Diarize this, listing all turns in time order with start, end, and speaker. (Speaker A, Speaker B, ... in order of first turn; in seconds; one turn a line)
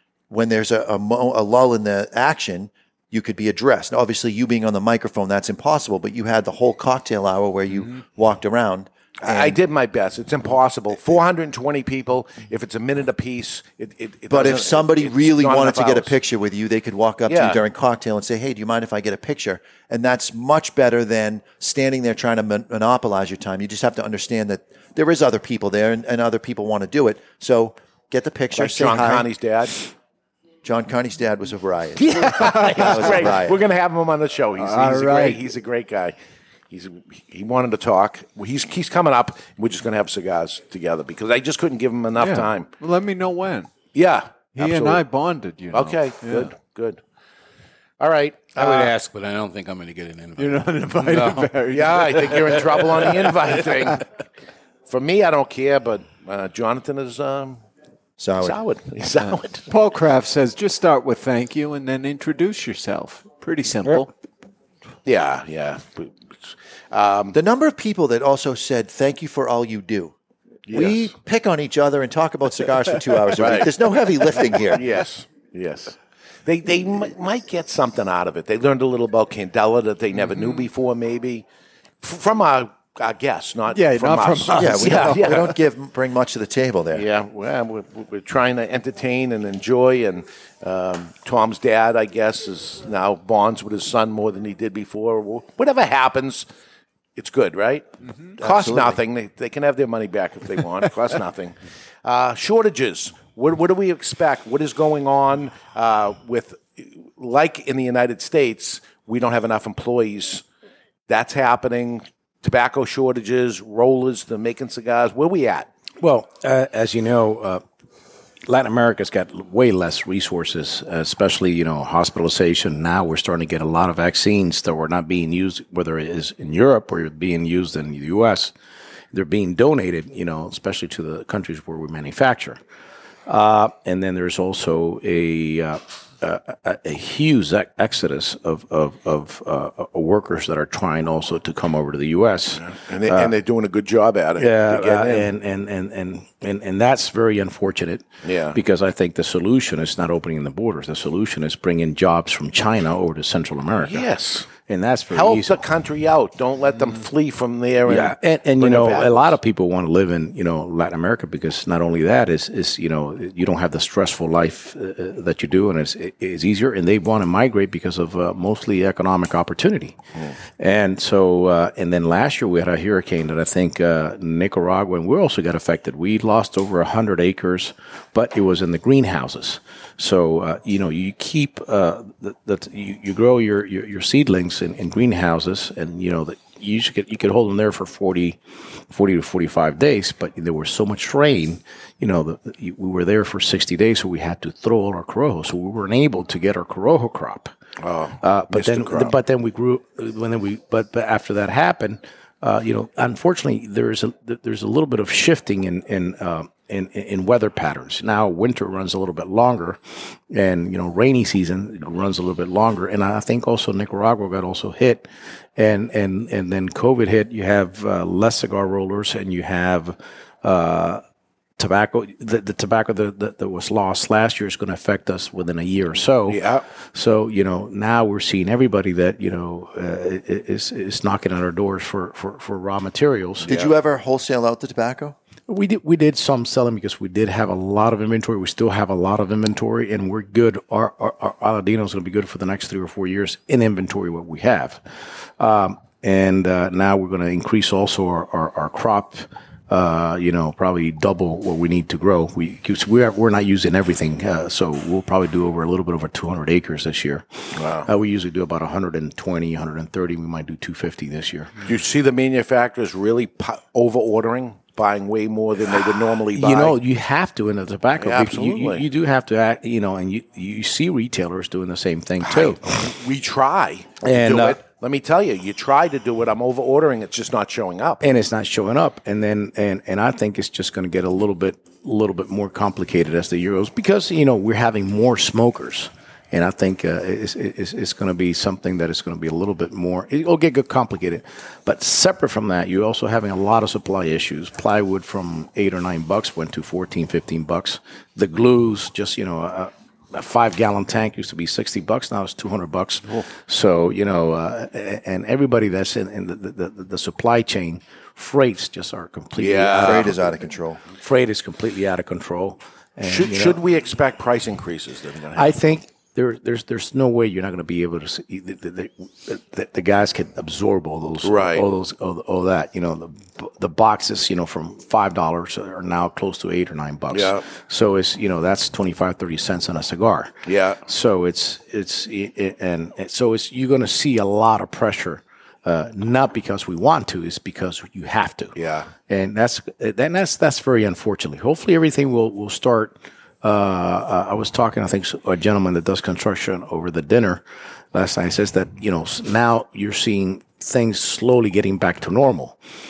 Speaker A: 0.3-9.6
Speaker B: 9.2-16.2
Speaker A: 14.3-29.3
Speaker B: 17.3-17.6
Speaker B: 28.5-29.9
Speaker A: 30.6-33.6
Speaker B: 32.0-36.2
Speaker C: 32.2-33.2
Speaker C: 34.6-35.4
Speaker B: 36.7-42.7
Speaker C: 42.2-43.7
Speaker B: 43.9-45.0
Speaker C: 44.5-46.5
Speaker B: 45.7-47.0
Speaker B: 48.0-48.9
Speaker D: 48.5-51.5
Speaker C: 50.4-53.7
Speaker B: 51.7-54.0
Speaker B: 54.9-57.6
Speaker A: 58.2-58.6
Speaker B: 58.4-59.6
Speaker C: 59.3-64.1
Speaker B: 65.0-67.4
Speaker A: 67.3-70.1
Speaker B: 70.7-71.1
Speaker A: 70.7-74.9
Speaker B: 73.4-73.7
Speaker B: 74.7-81.5
Speaker C: 80.2-80.6
Speaker B: 82.0-85.5
Speaker C: 83.7-85.5
Speaker A: 84.5-87.1
Speaker B: 86.9-96.5
Speaker B: 97.2-97.9
Speaker A: 98.4-99.0
Speaker B: 98.4-110.4
Speaker B: 111.1-115.7
Speaker E: 116.0-117.6
Speaker E: 118.5-128.5
Speaker E: 129.1-132.6
Speaker E: 133.3-143.3
Speaker B: 142.6-145.3
Speaker E: 144.4-155.6
Speaker B: 148.2-148.6
Speaker B: 153.8-154.5
Speaker B: 155.1-159.4
Speaker E: 157.9-170.0
Speaker E: 170.6-197.5
Speaker B: 197.8-199.2
Speaker E: 198.2-221.0
Speaker E: 221.6-233.5
Speaker B: 226.3-226.6
Speaker B: 233.5-233.7
Speaker A: 233.5-235.2
Speaker E: 235.5-244.8
Speaker E: 245.4-257.3
Speaker B: 257.6-257.9
Speaker E: 257.8-261.5
Speaker B: 261.7-266.8
Speaker E: 266.3-272.6
Speaker B: 268.0-268.9
Speaker B: 272.2-278.0
Speaker E: 274.0-274.6
Speaker E: 278.0-310.3
Speaker B: 309.4-310.1
Speaker A: 309.8-310.8
Speaker E: 310.9-313.6
Speaker B: 313.1-315.5
Speaker E: 315.3-330.3
Speaker B: 321.2-321.7
Speaker B: 327.1-327.4
Speaker B: 330.5-330.8
Speaker E: 330.9-338.6
Speaker B: 338.6-338.9
Speaker E: 339.1-352.6